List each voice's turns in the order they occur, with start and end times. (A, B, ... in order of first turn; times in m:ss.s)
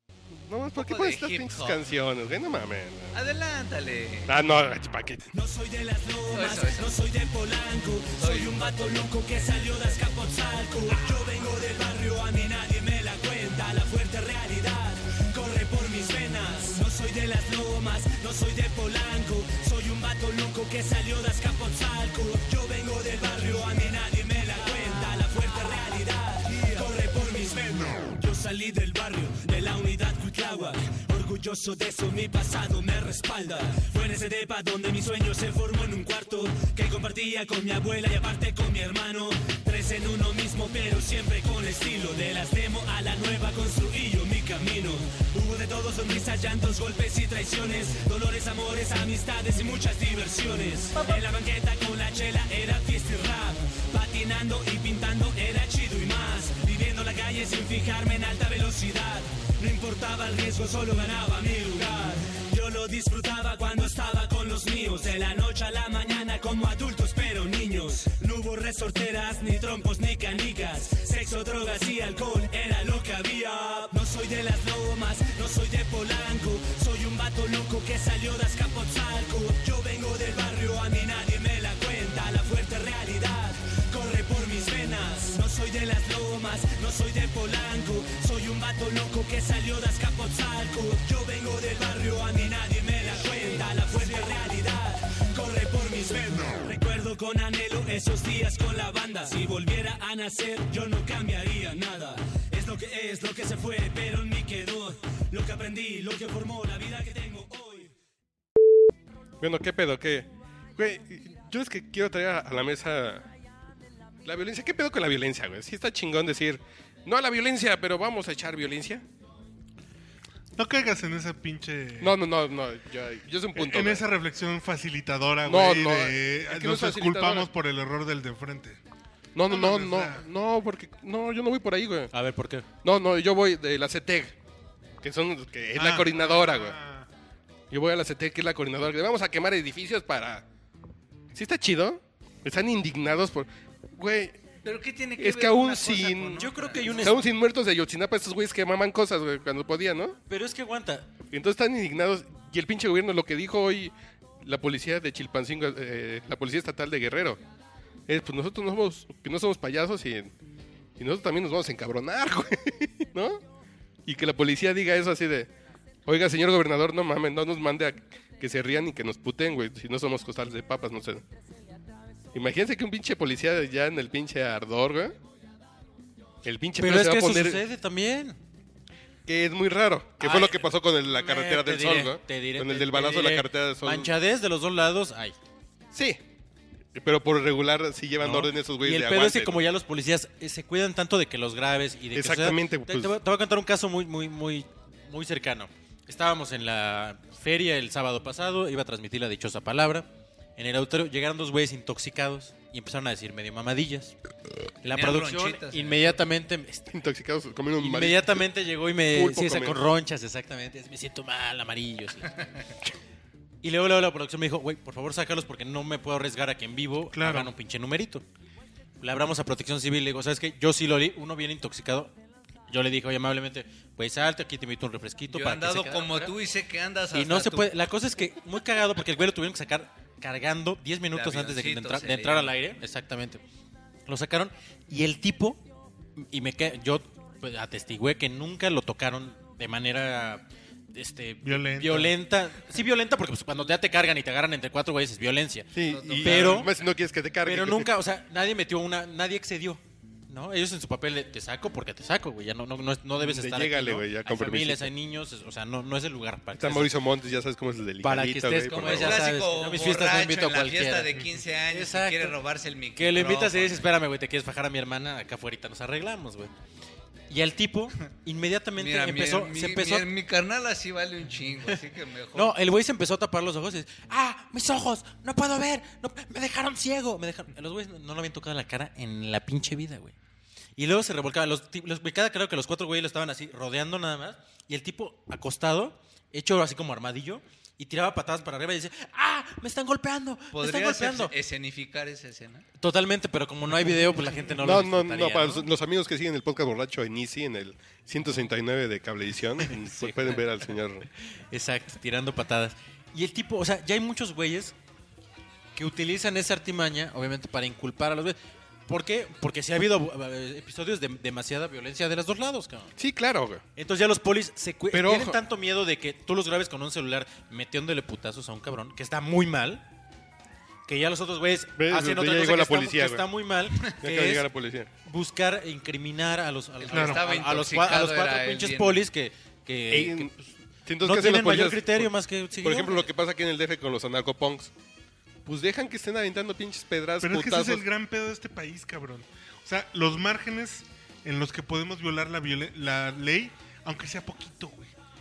0:00.3-0:03.2 A
0:00.8-0:01.8 B
0:03.1-0:04.4 B
0:04.3-0:05.3 A
0:05.3-1:47.9 C
0:06.3-0:06.8 B
0:08.2-0:10.0 B
1:49.4-1:53.3 A
1:54.2-1:59.0 A
2:00.6-2:02.2 D
2:02.0-2:04.0 A
2:03.6-2:08.8 D
2:05.5-2:07.5 A
2:09.4-2:12.1 A
2:09.5-2:10.3 D
2:12.1-2:12.7 E
2:12.8-2:14.4 A
2:15.0-2:16.8 A
2:15.8-2:17.1 D
2:17.7-2:20.4 A
2:21.3-2:24.4 A
2:24.6-2:27.2 B
2:25.2-2:30.2 A
2:26.4-2:27.3 E
2:30.3-2:31.1 E
2:31.3-2:37.4 A
2:38.1-2:40.3 A
2:41.0-2:43.4 A
2:44.0-2:45.5 A
2:46.1-2:51.2 A
2:52.3-2:55.2 A
2:56.4-2:57.6 A
2:56.8-2:58.4 E
2:59.3-3:04.1 A
3:00.2-3:05.4 E
3:05.9-3:06.2 A
3:07.0-3:09.6 A
3:08.2-3:24.1 E
3:12.1-3:13.2 A
3:24.8-3:27.0 E
3:24.8-3:26.2 B
3:26.9-3:28.4 A
3:27.8-3:32.3 E
3:29.1-3:29.8 A
3:33.6-3:38.2 E
3:37.1-3:37.5 D
3:39.0-3:42.1 E
3:42.7-3:46.3 E
3:45.3-3:47.7 B
3:47.1-3:53.4 E
3:51.1-3:52.5 B
3:54.1-3:55.6 E
3:56.2-4:06.7 E
4:01.4-4:02.2 D
4:05.7-4:07.9 A
4:05.8-4:06.8 B
4:07.4-4:17.0 E
4:13.2-4:14.9 A
4:16.6-4:19.2 A
4:18.0-4:21.1 E
4:18.7-4:23.9 B
4:21.7-4:22.4 E
4:23.0-4:26.5 E
4:27.3-4:30.1 E
4:28.8-4:32.6 B
4:32.3-4:40.2 E
4:40.8-4:51.3 E
4:50.5-4:52.7 B
4:52.8-4:55.7 E
4:54.6-5:01.1 A
4:59.7-5:00.4 E
5:01.3-5:04.8 E
5:05.8-5:08.4 E
5:08.9-5:12.9 E
5:13.0-5:13.6 A
5:13.8-5:19.8 E
5:14.9-5:15.4 A
5:20.9-5:24.5 E
5:21.8-5:23.3 A
5:24.0-5:24.9 A
5:25.0-5:30.3 E
5:26.8-5:29.0 B
5:26.9-5:27.2 D
5:29.9-5:34.7 A
5:31.0-5:33.1 E
5:35.4-5:37.8 A
5:37.2-5:44.9 D